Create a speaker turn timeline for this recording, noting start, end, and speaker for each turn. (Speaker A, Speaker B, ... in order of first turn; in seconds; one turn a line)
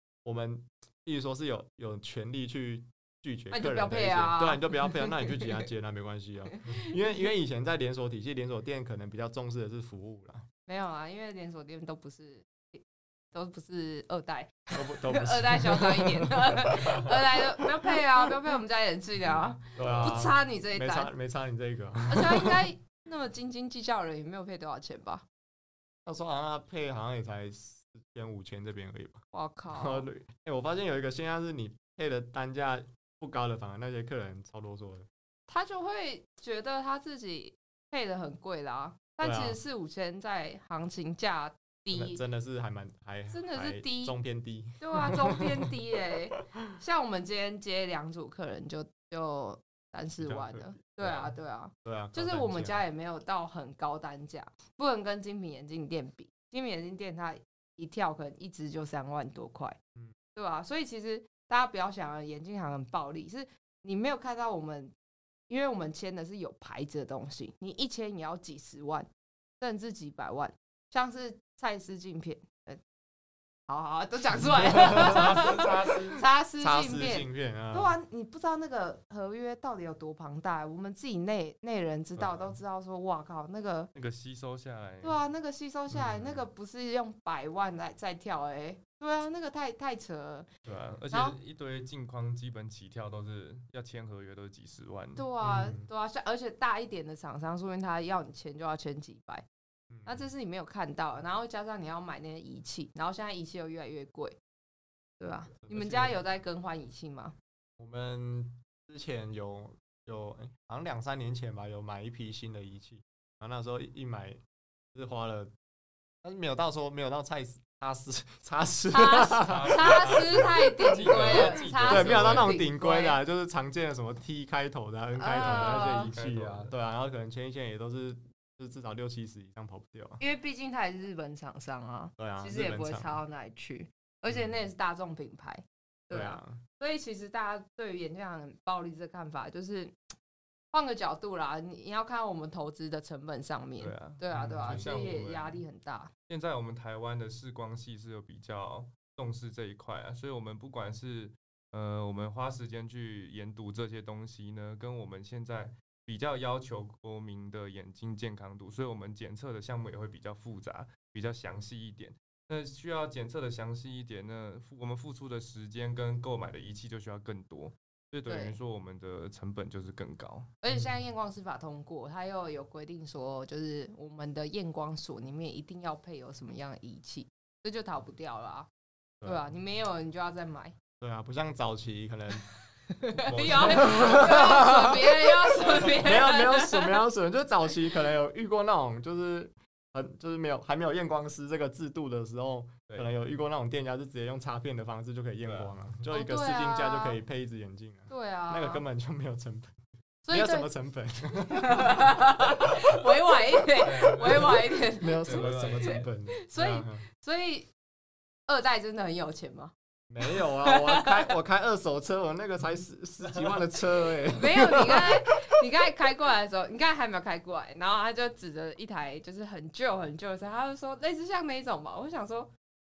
Speaker A: 0.2-10.4
Speaker B: 3.5-5.5
Speaker B: 6.5-6.9
Speaker B: 10.7-21.1
Speaker A: 14.7-18.3
Speaker A: 19.8-22.7
Speaker C: 19.8-20.3
Speaker B: 22.1-25.2
Speaker A: 26.1-35.1
Speaker B: 29.3-30.1
Speaker B: 35.5-42.2
Speaker A: 39.2-39.6
Speaker A: 41.9-45.8
Speaker B: 43.3-44.1
Speaker B: 44.8-59.8
Speaker A: 50.2-51.3
Speaker A: 51.8-52.8
Speaker B: 60.3-64.9
Speaker B: 65.5-72.8
Speaker B: 73.7-83.9
Speaker A: 74.7-75.5
Speaker C: 74.7-76.2
Speaker A: 76.6-77.9
Speaker C: 82.2-82.5
Speaker C: 83.9-85.2
Speaker B: 85.0-90.5
Speaker A: 85.9-86.4
Speaker C: 90.7-95.3
Speaker B: 91.1-91.3
Speaker B: 95.2-99.4
Speaker A: 95.4-95.9
Speaker A: 99.9-100.3
Speaker B: 100.0-104.4
Speaker B: 105.2-107.3
Speaker A: 105.6-106.2
Speaker A: 107.8-114.4
Speaker A: 114.9-115.5
Speaker A: 116.2-130.2
Speaker B: 118.9-123.2
Speaker C: 119.4-122.6
Speaker B: 125.2-126.1
Speaker C: 125.3-126.7
Speaker B: 130.2-140.0
Speaker A: 132.2-133.2
Speaker A: 136.1-136.6
Speaker B: 140.7-146.1
Speaker A: 143.8-145.1
Speaker C: 143.9-145.6
Speaker C: 146.3-170.5
Speaker B: 168.3-168.6
Speaker B: 170.6-178.7
Speaker B: 179.2-180.8
Speaker A: 181.0-182.5
Speaker B: 182.9-187.0
Speaker C: 183.2-184.7
Speaker A: 183.5-202.4
Speaker C: 185.6-186.0
Speaker C: 195.4-195.9
Speaker B: 196.1-197.2
Speaker B: 198.1-198.8
Speaker B: 200.2-200.7
Speaker B: 201.4-207.7
Speaker C: 203.8-206.1
Speaker A: 204.3-207.0
Speaker B: 208.5-211.3
Speaker A: 210.1-215.2
Speaker C: 213.3-213.6
Speaker B: 214.3-222.5